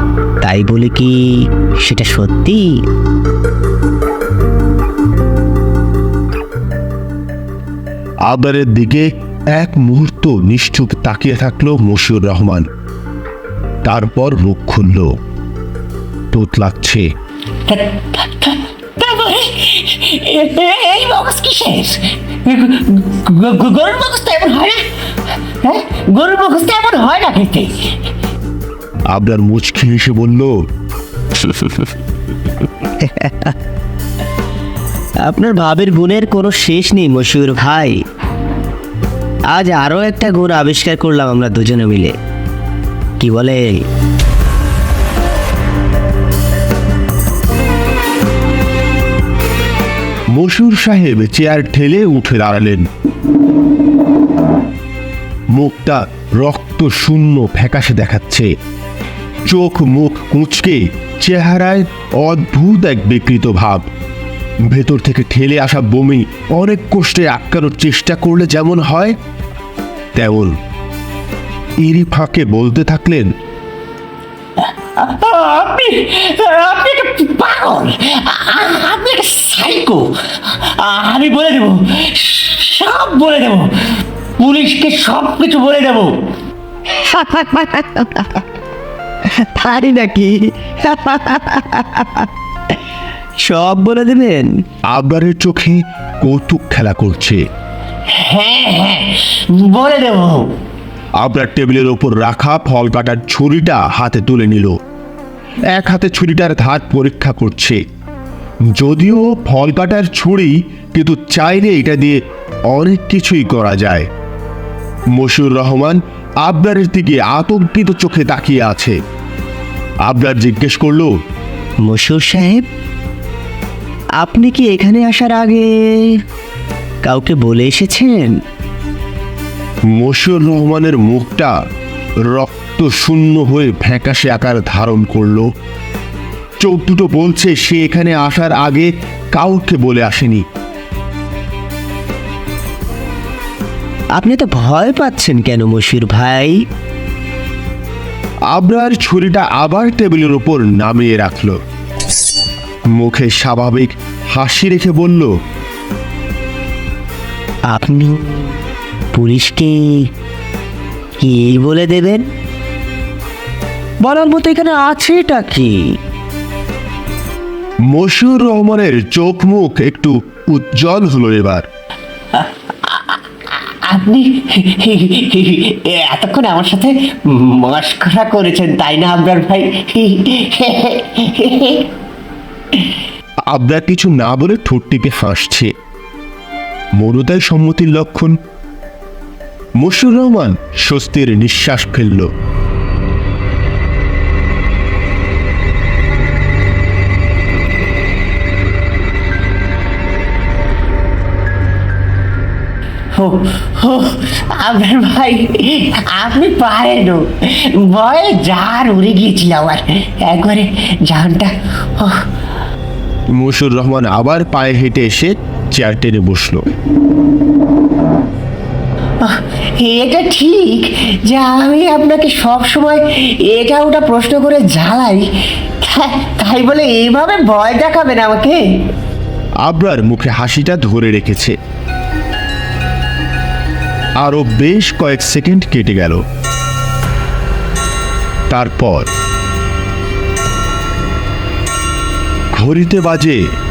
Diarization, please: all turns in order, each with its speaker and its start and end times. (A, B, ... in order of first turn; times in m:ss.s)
0:00.4-0:02.8 A
0:08.2-0:12.7 B
0:13.8-0:15.2 B
0:16.3-0:17.1 B
0:17.6-0:24.8 C
0:25.6-0:27.9 C
0:29.1-0:30.6 B
0:31.4-0:31.9 A
0:32.8-0:33.6 A
0:35.2-0:38.0 A
0:39.5-0:42.1 A
0:43.2-0:43.9 A
0:50.3-0:52.9 B
0:55.5-0:58.5 B
0:59.4-1:03.9 B
1:04.7-1:09.2 B
1:10.1-1:10.6 B
1:11.8-1:13.3 B
1:14.6-1:26.3 C
1:26.9-1:28.4 A
1:29.2-1:32.3 A
1:33.4-1:34.6 A
1:34.9-1:37.4 B
1:38.1-1:40.6 C
1:41.2-1:44.8 B
1:45.7-1:47.8 B
1:48.7-1:54.1 B
1:55.1-1:59.0 B
2:00.0-2:01.1 B
2:01.8-2:02.6 A
2:04.2-2:06.2 A
2:07.0-2:08.4 A
2:09.9-2:11.6 B
2:12.2-2:15.5 B
2:16.6-2:20.4 B
2:24.2-2:26.6 A
2:28.5-2:31.6 B
2:32.9-2:35.3 B
2:37.7-2:38.5 A
2:39.1-2:40.1 A
2:41.2-2:42.3 A
2:44.0-2:45.9 A
2:47.9-2:51.7 B
2:52.3-3:01.9 C
3:03.5-3:05.7 B
3:07.0-3:08.4 B
3:09.8-3:12.3 B
3:23.1-3:32.3 C
3:33.3-3:36.7 B
3:39.2-3:45.3 C
3:45.8-3:48.8 C
3:49.6-3:51.6 B
3:54.2-3:56.2 B
3:58.5-3:59.1 B
4:02.5-4:03.4 B